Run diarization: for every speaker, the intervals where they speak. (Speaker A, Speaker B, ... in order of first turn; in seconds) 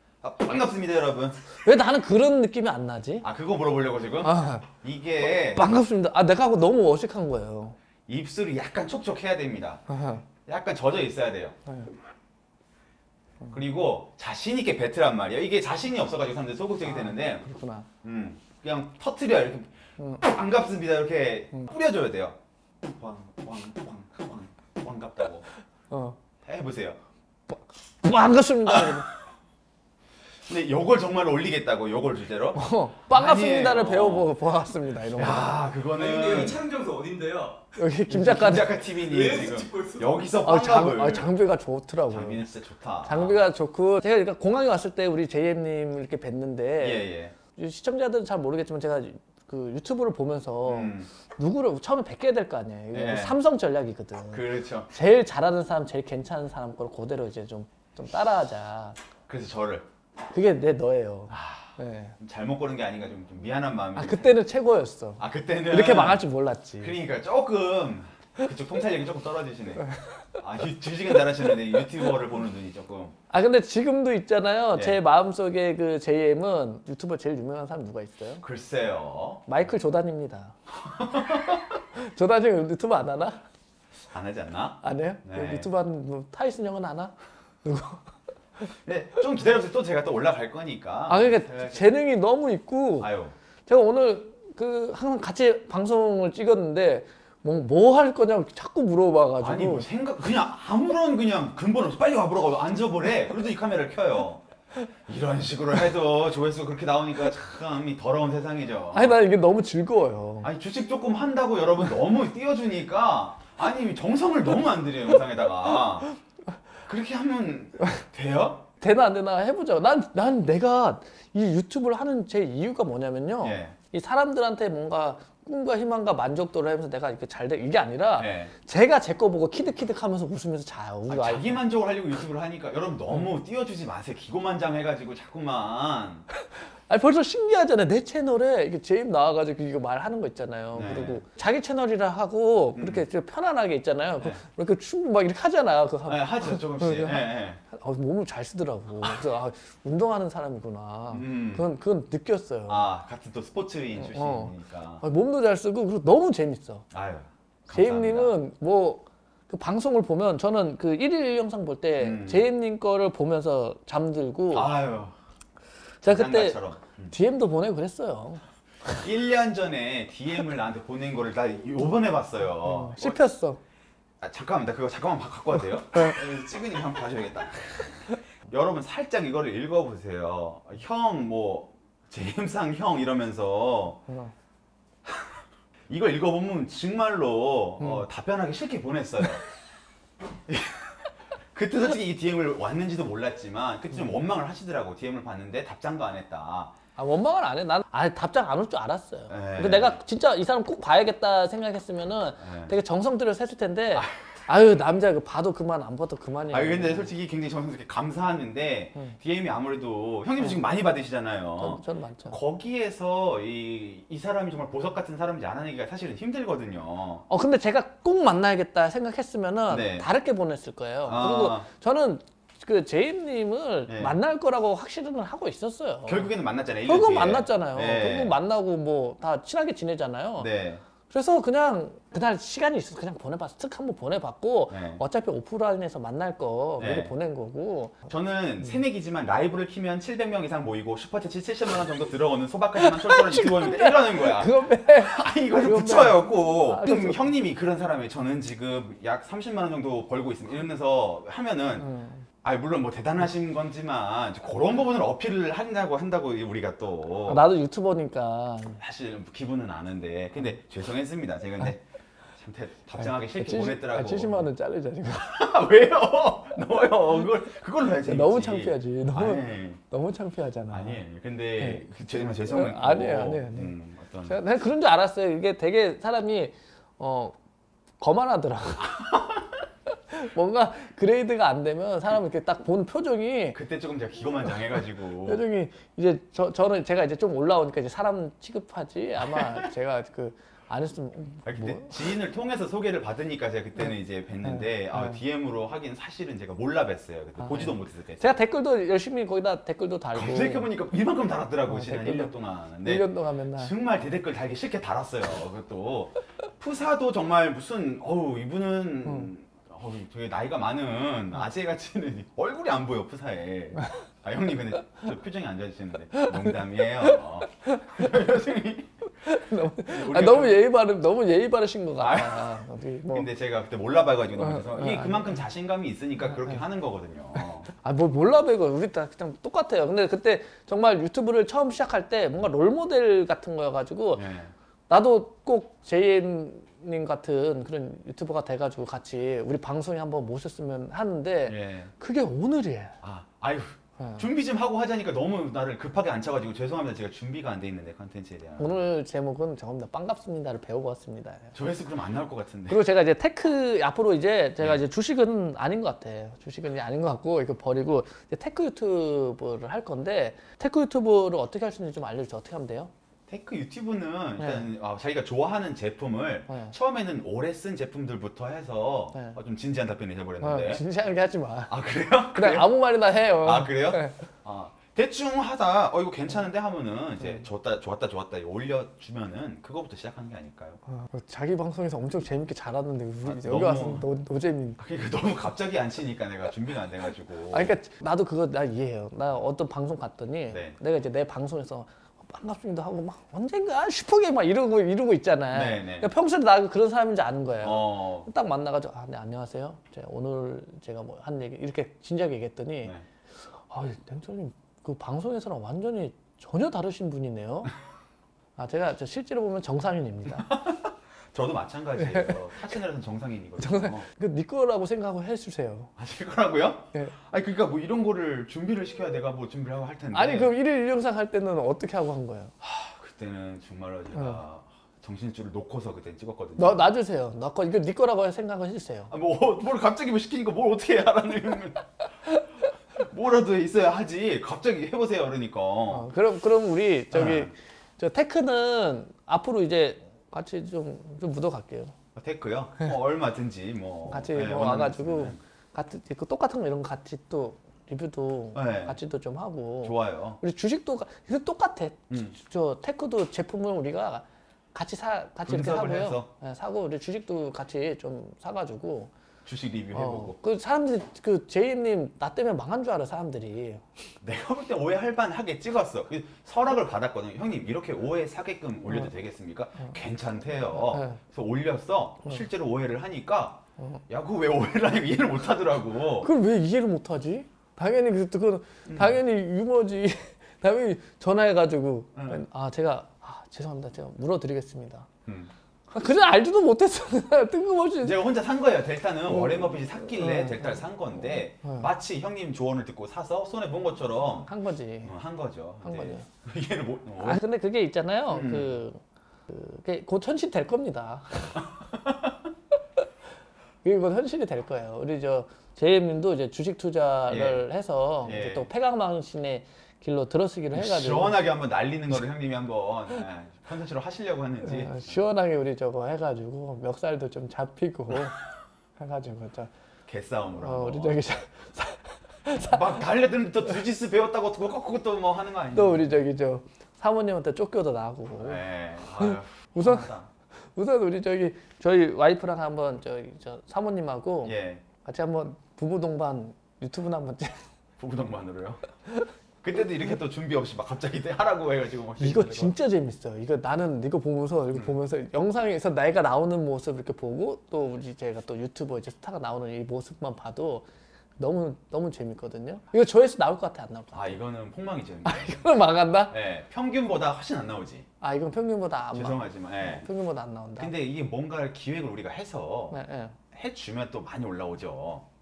Speaker A: 0.2-1.4, 3.2-5.8, 8.1-9.8, 10.4-11.5, 13.5-17.4, 18.0-25.5, 26.4-27.0, 28.7-29.1, 30.5-34.3, 35.1-36.7, 38.1-41.3, 42.1-43.4, 46.8-47.3, 50.6-51.1, 52.9-53.4, 54.3-54.9, 59.3-59.9, 61.3-64.4, 65.2-66.2, 66.8-73.2, 74.7-75.0, 78.4-79.5, 80.8-81.8, 84.1-85.7, 88.8-91.8, 93.0-93.3, 99.4-104.4, 105.1-109.2, 110.4-116.1, 116.8-118.7, 123.4-123.8, 128.2-128.5, 131.1-136.2, 140.7-141.2, 142.8-143.0, 146.1-147.6, 151.1-151.7, 152.7-155.0, 156.9-158.3, 162.0-162.5, 164.5-165.1, 166.0-167.1, 168.9-173.2, 174.2-184.0, 185.0-189.4, 190.5-196.7, 199.3-200.0, 202.4-202.7, 206.5-217.2, 219.7-220.1, 221.0-221.7, 223.9-224.2, 226.1-228.3, 230.4-230.8, 234.7-235.0, 236.8-237.1, 238.1-251.9, 252.4-257.5, 258.8-261.8, 262.4-264.5, 265.1-269.8, 270.7-274.4, 278.8-279.4, 283.5-285.4, 289.3-289.6, 291.4-298.4, 300.1-318.9, 319.7-320.6, 322.0-327.7, 334.1-334.5, 341.5-341.9, 343.0-348.8, 351.5-352.9, 363.3-370.8, 371.7-372.8, 373.3-380.8, 383.2-384.1, 384.8-387.7, 390.5-390.8, 395.5-396.1, 397.6-398.3, 410.5-414.0, 416.0-420.5, 422.6-426.9, 429.1-432.0, 432.9-436.1, 437.1-437.5, 442.1-445.4, 448.5-449.0, 449.8-450.4, 452.1-452.4, 455.4-456.3, 459.4-460.4, 464.2-476.3, 478.9-479.2, 482.1-482.4, 485.2-485.5, 488.0-494.5, 495.0-497.4, 498.3-498.8, 501.7-502.3, 507.3-507.6, 508.2-508.7, 510.7-515.2, 520.1-521.2, 522.5-526.1, 528.4-530.3, 534.4-534.8, 538.0-538.8, 539.6-542.8, 554.1-555.7, 556.3-558.1, 559.1-560.1, 560.8-563.0, 563.5-565.2
Speaker B: 1.6-3.2, 4.2-4.7, 5.5-7.8, 9.9-10.2, 16.9-17.9, 20.0-20.2, 25.9-26.2, 27.5-29.1, 32.5-35.5, 37.8-38.8, 40.4-42.5, 43.0-59.0, 60.3-62.1, 64.0-67.0, 69.9-70.2, 73.3-78.4, 79.5-80.5, 81.9-83.4, 84.8-88.0, 91.1-93.1, 93.7-99.9, 108.9-110.5, 118.8-131.6, 136.9-152.9, 153.9-156.8, 157.7-164.7, 166.0-168.4, 172.6-173.6, 197.0-207.1, 211.6-212.4, 217.3-226.3, 226.8-230.5, 231.1-238.1, 242.8-247.3, 251.8-252.2, 257.3-258.8, 263.0-265.4, 268.0-271.0, 271.6-271.8, 272.4-273.7, 274.3-277.4, 278.0-279.0, 280.1-283.6, 285.2-292.1, 294.4-295.2, 297.4-300.7, 301.7-302.3, 302.8-303.7, 316.1-318.1, 319.2-323.3, 324.4-325.4, 327.4-334.3, 334.9-343.0, 344.0-344.2, 348.6-351.6, 352.7-362.9, 364.4-364.6, 366.5-366.7, 370.4-371.7, 372.3-374.2, 380.9-384.8, 387.5-402.9, 403.6-407.7, 408.6-410.6, 412.0-412.4, 413.6-415.9, 420.1-422.5, 426.6-429.1, 435.9-441.9, 444.1-459.1, 459.9-463.9, 470.8-471.2, 476.2-485.1, 485.9-488.2, 489.3-491.9, 494.5-495.1, 495.8-496.3, 497.2-501.6, 503.8-511.4, 514.6-518.4, 519.0-519.7, 520.5-522.9, 525.7-528.6, 529.2-530.1, 530.7-537.6, 542.2-550.9, 551.4-554.4, 555.2-556.3, 558.2-560.9, 562.9-563.4
Speaker C: 36.0-37.6, 39.1-40.1